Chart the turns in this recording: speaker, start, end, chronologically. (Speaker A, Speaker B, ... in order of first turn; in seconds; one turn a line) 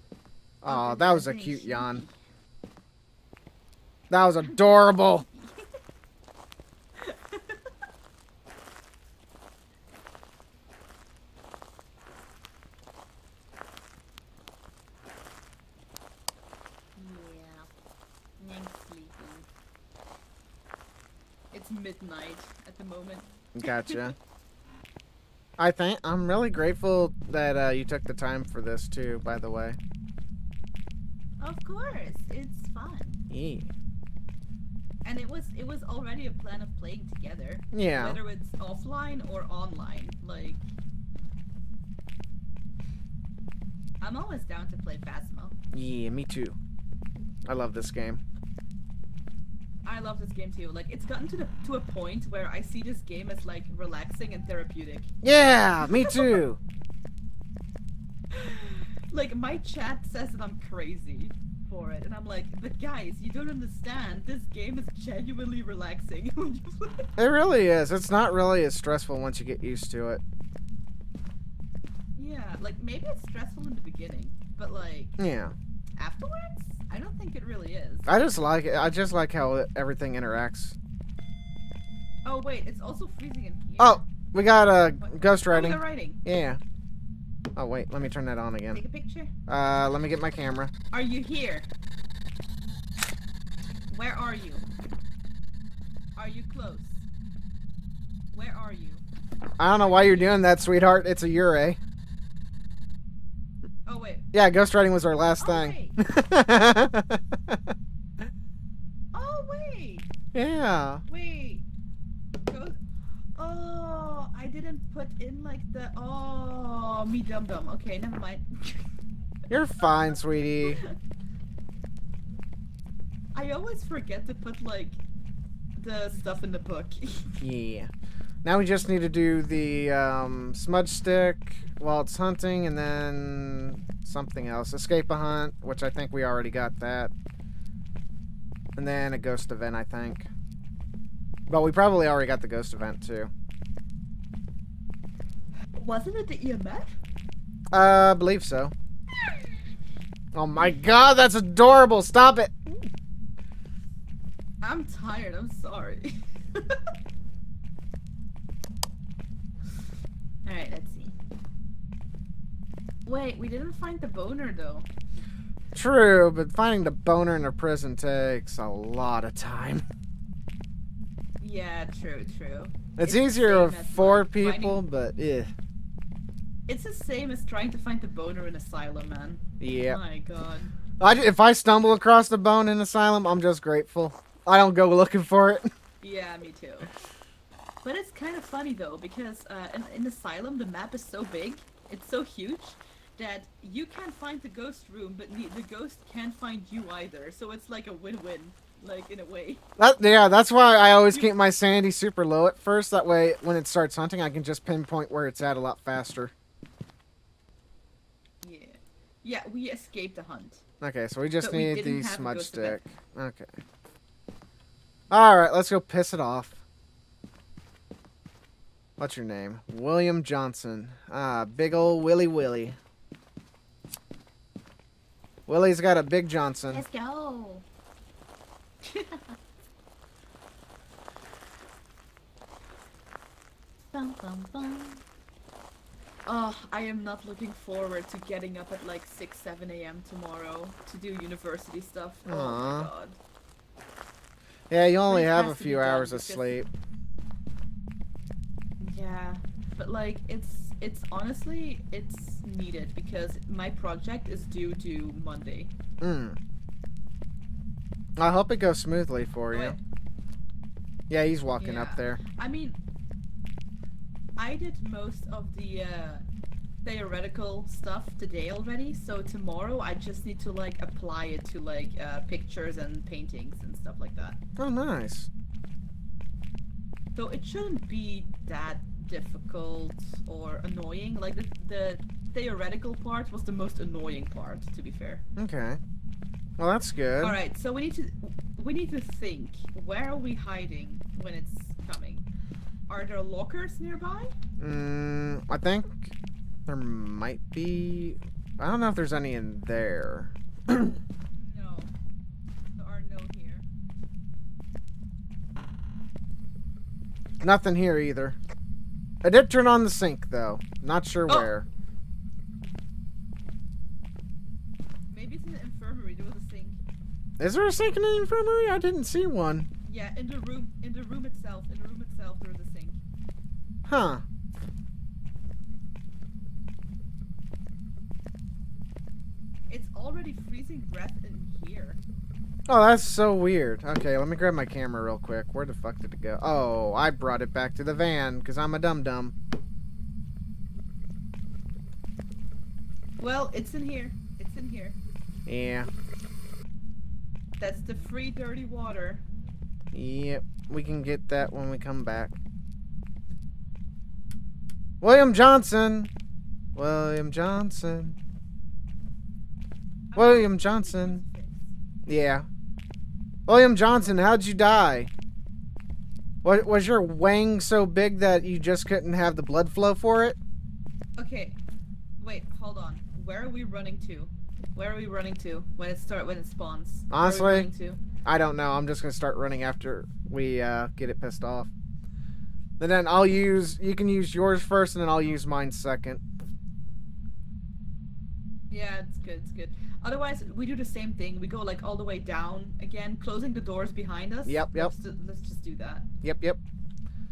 Speaker A: 0.6-2.0
Speaker B: 0.7-2.1
Speaker A: 4.1-5.3
Speaker B: 5.3-5.6
Speaker B: 7.0-7.6
Speaker B: 17.0-17.7
Speaker B: 18.4-19.5
Speaker B: 21.5-24.1
Speaker A: 23.6-24.1
Speaker A: 25.6-29.8
Speaker B: 31.4-33.2
Speaker A: 33.3-33.7
Speaker B: 35.0-40.6
Speaker A: 37.7-38.2
Speaker B: 44.0-45.6
Speaker A: 45.7-46.6
Speaker A: 47.5-48.2
Speaker B: 49.9-55.1
Speaker A: 55.2-56.6
Speaker B: 55.8-56.4
Speaker B: 58.3-67.1
Speaker A: 67.2-70.2
Speaker B: 72.2-75.2
Speaker A: 75.2-75.5
Speaker B: 76.0-78.1
Speaker A: 78.1-80.8
Speaker B: 82.2-84.0
Speaker A: 83.8-86.6
Speaker B: 85.0-86.2
Speaker A: 87.5-88.8
Speaker B: 88.7-89.3
Speaker A: 89.5-90.7
Speaker B: 90.9-91.7
Speaker B: 93.9-94.7
Speaker B: 96.2-97.0
Speaker B: 98.3-99.0
Speaker A: 99.6-101.8
Speaker B: 99.8-100.4
Speaker B: 103.9-104.3
Speaker A: 104.3-107.7
Speaker B: 105.4-106.0
Speaker B: 109.1-110.1
Speaker A: 110.3-111.0
Speaker B: 111.1-111.6
Speaker B: 112.5-112.8
Speaker B: 113.4-118.9
Speaker A: 119.5-120.8
Speaker B: 120.6-120.9
Speaker B: 123.3-125.0
Speaker B: 125.8-127.4
Speaker A: 127.4-127.9
Speaker A: 128.4-137.1
Speaker A: 138.8-140.3
Speaker A: 141.5-143.3
Speaker B: 145.8-146.9
Speaker A: 147.7-148.7
Speaker A: 150.3-152.9
Speaker B: 154.6-156.8
Speaker B: 160.4-161.1
Speaker B: 163.1-164.9
Speaker A: 165.8-169.8
Speaker B: 171.4-174.8
Speaker A: 173.0-175.5
Speaker B: 176.7-180.8
Speaker A: 179.6-180.0
Speaker A: 181.0-185.7
Speaker B: 186.0-186.9
Speaker B: 187.8-199.6
Speaker A: 199.8-206.3
Speaker B: 208.4-210.6
Speaker A: 210.8-213.6
Speaker B: 211.4-212.8
Speaker A: 215.1-216.6
Speaker A: 219.0-222.8
Speaker A: 225.5-226.8
Speaker B: 226.7-227.7
Speaker B: 228.8-229.2
Speaker B: 233.9-235.0
Speaker B: 236.3-243.2
Speaker A: 242.3-242.9
Speaker A: 244.7-246.7
Speaker B: 245.1-246.6
Speaker B: 248.8-255.7
Speaker A: 256.0-256.4
Speaker A: 258.2-259.8
Speaker B: 259.5-259.8
Speaker A: 261.1-262.2
Speaker B: 261.6-262.8
Speaker B: 264.4-266.2
Speaker B: 266.8-274.4
Speaker A: 274.6-275.3
Speaker B: 277.2-285.2
Speaker A: 285.4-285.8
Speaker A: 286.6-287.4
Speaker B: 287.2-292.3
Speaker B: 292.9-294.4
Speaker A: 294.6-296.1
Speaker A: 296.7-301.0
Speaker B: 301.3-301.9
Speaker B: 302.8-303.7
Speaker A: 307.4-308.4
Speaker A: 309.2-311.7
Speaker B: 315.1-316.8
Speaker A: 317.4-319.7
Speaker B: 319.9-323.0
Speaker A: 323.9-324.2
Speaker B: 329.7-332.0
Speaker A: 332.7-339.3
Speaker B: 343.2-345.0
Speaker A: 345.5-345.9
Speaker B: 347.6-349.2
Speaker A: 349.9-352.4
Speaker A: 355.0-356.1
Speaker A: 356.8-358.2
Speaker B: 360.1-361.7
Speaker A: 360.2-361.2
Speaker A: 362.1-362.5
Speaker A: 363.5-365.1
Speaker A: 366.4-370.4
Speaker B: 371.2-371.6
Speaker B: 372.2-378.0
Speaker A: 377.1-377.7
Speaker A: 378.2-381.7
Speaker A: 382.8-386.2
Speaker B: 388.7-396.1
Speaker A: 394.5-394.9
Speaker A: 396.2-396.6